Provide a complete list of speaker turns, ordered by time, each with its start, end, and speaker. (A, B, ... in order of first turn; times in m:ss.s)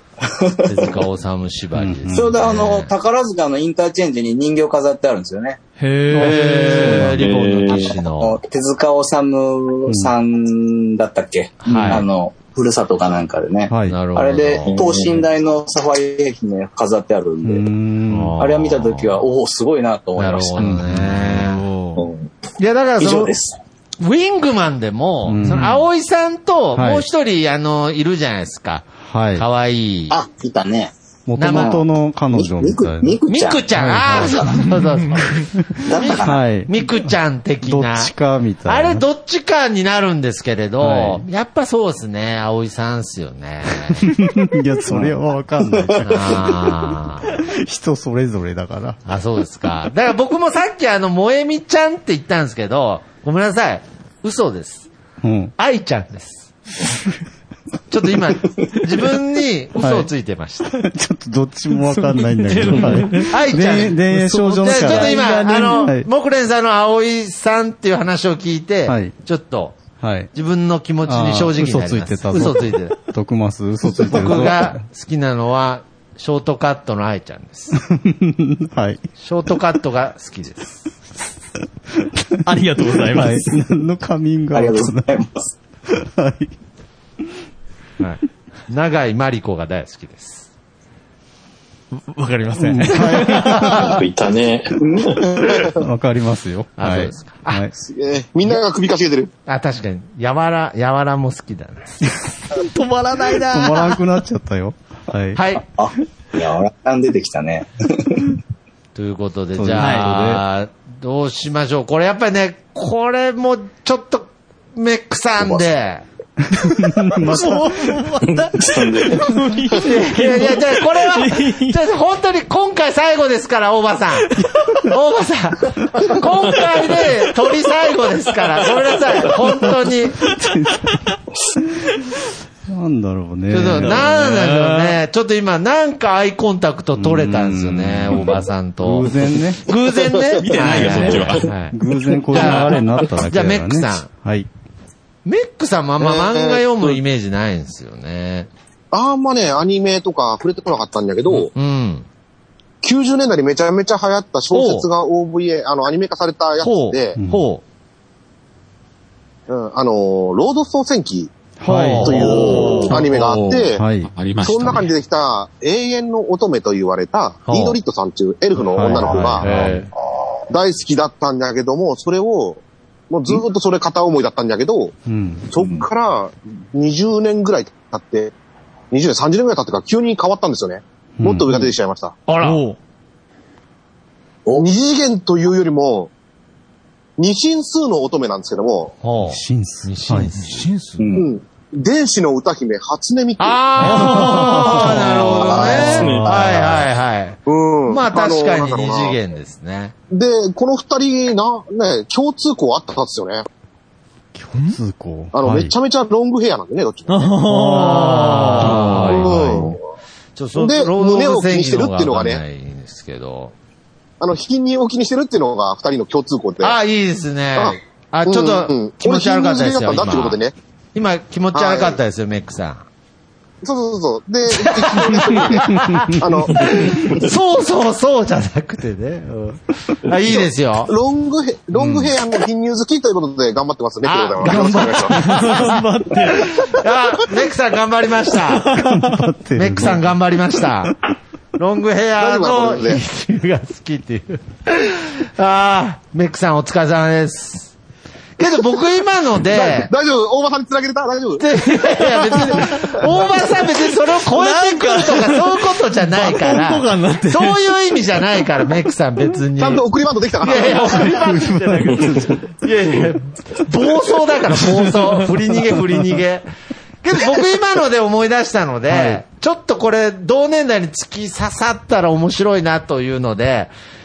0:00.2-0:00.9 A
0:00.6-0:02.9 B
0:01.7-0:02.4 C
0:02.1-0:05.6 A
0:05.8-0:07.1 D
0:06.1-0:07.2 C
0:06.2-0:08.4 B
0:07.2-0:08.0 E
0:08.2-0:17.7 A
0:09.9-0:10.1 C
0:11.6-0:12.0 B
0:11.7-0:12.0 C
0:13.7-0:14.0 C
0:13.9-0:14.8 B
0:14.6-0:15.2 E
0:17.4-0:18.3 C
0:18.1-0:19.1 B
0:18.4-0:20.8 A
0:20.2-0:21.6 B
0:20.6-0:21.5 C
0:21.2-0:21.9 D
0:22.0-0:22.3 A
0:22.6-0:23.3 B
0:23.0-0:23.6 A
0:24.0-0:30.2 B
0:25.2-0:25.8 C
0:26.7-0:27.0 C
0:29.0-0:29.4 C
0:30.1-0:33.6 A
0:31.3-0:33.2 C
0:31.4-0:31.8 B
0:33.3-0:38.1 B
0:33.8-0:34.7 C
0:35.8-0:37.1 C
0:35.8-0:36.4 A
0:37.6-0:39.0 C
0:38.6-0:44.1 B
0:40.8-0:41.2 C
0:44.0-0:49.0 C
0:45.7-0:46.2 A
0:46.0-0:47.3 B
0:49.0-0:54.9 B
0:55.2-0:55.5 C
0:55.6-0:56.5 B
0:57.9-1:00.7 B
0:59.8-1:00.1 C
1:00.6-1:06.1 C
1:02.2-1:03.3 D
1:03.1-1:04.0 B
1:04.1-1:05.8 D
1:04.5-1:09.8 B
1:08.9-1:09.1 C
1:10.0-1:10.3 C
1:10.3-1:13.0 B
1:11.0-1:14.8 C
1:14.1-1:17.8 B
1:17.9-1:19.0 C
1:19.2-1:20.8 B
1:22.4-1:23.5 D
1:22.9-1:25.2 C
1:24.5-1:25.5 A
1:25.9-1:26.5 C
1:28.0-1:30.5 B
1:31.9-1:33.8 D
1:32.6-1:34.0 C
1:33.8-1:35.4 E
1:34.8-1:35.6 A
1:35.8-1:37.7 C
1:36.8-1:37.6 B
1:37.8-1:39.3 F
1:39.5-1:42.1 B
1:42.5-1:44.0 D
1:43.4-1:45.4 C
1:45.3-1:45.6 B
1:45.7-1:48.2 A
1:48.9-1:56.0 B
1:49.6-1:50.4 C
1:49.8-1:50.3 D
1:55.4-1:55.6 A
1:56.8-1:58.0 C
1:57.3-2:01.8 D
1:58.2-1:59.4 E
1:59.8-2:04.3 B
2:04.4-2:04.7 D
2:04.8-2:10.2 B
2:10.2-2:10.9 C
2:12.7-2:14.0 C
2:13.5-2:19.1 B
2:13.8-2:15.0 D
2:17.0-2:19.6 C
2:19.6-2:21.7 B
2:20.4-2:21.5 E
2:20.4-2:21.5 G
2:20.8-2:24.5 C
2:20.9-2:21.1 D
2:22.3-2:24.1 B
2:22.6-2:23.1 E
2:25.2-2:28.5 B
2:26.0-2:27.0 F
2:28.9-2:31.5 F
2:31.5-2:32.0 B
2:32.8-2:37.2 F
2:34.5-2:34.9 B
2:36.6-2:37.6 B
2:37.2-2:37.4 C
2:39.5-2:41.3 F
2:41.6-2:43.0 C
2:41.6-2:42.5 B
2:42.0-2:43.8 F
2:42.0-2:43.0 D
2:43.2-2:44.9 G
2:43.7-2:44.1 C
2:44.4-2:49.5 F
2:47.4-2:47.8 B
2:48.6-2:49.9 C
2:49.4-2:49.9 B
2:50.5-2:54.9 F
2:55.1-2:55.5 C
2:55.5-2:58.3 F
2:55.6-2:55.9 A
2:58.9-3:02.1 F
3:01.2-3:01.7 C
3:02.3-3:02.6 B
3:02.4-3:02.8 D
3:04.5-3:06.1 F
3:07.2-3:08.9 F
3:09.0-3:10.7 B
3:09.2-3:10.3 C
3:10.5-3:10.8 D
3:11.0-3:11.3 A
3:11.2-3:14.2 F
3:13.4-3:19.9 B
3:13.9-3:15.3 D
3:13.9-3:16.3 C
3:15.3-3:16.4 A
3:15.5-3:16.7 E
3:17.4-3:19.2 F
3:20.1-3:23.4 F
3:24.3-3:25.7 C
3:25.3-3:27.4 F
3:27.1-3:29.3 D
3:27.5-3:29.7 C
3:27.7-3:29.7 B
3:28.6-3:29.8 F
3:30.4-3:33.5 B
3:30.6-3:32.4 F
3:34.2-3:36.8 F
3:36.6-3:40.4 B
3:37.6-3:40.5 F
3:40.9-3:42.8 B
3:41.5-3:42.0 F
3:43.6-3:47.1 F
3:44.6-3:50.9 B
3:50.9-3:55.2 F
3:51.8-3:52.1 B
3:54.0-3:58.7 B
3:54.4-3:56.7 D
3:58.6-3:59.1 D
3:58.7-4:00.1 C
3:59.6-4:00.9 B
4:01.6-4:07.7 B
4:02.2-4:03.0 F
4:08.4-4:09.9 B
4:09.4-4:11.5 F
4:11.4-4:19.8 B
4:14.3-4:17.6 D
4:19.6-4:21.1 F
4:20.4-4:26.4 B
4:21.1-4:22.4 C
4:27.0-4:33.7 B
4:28.9-4:29.2 C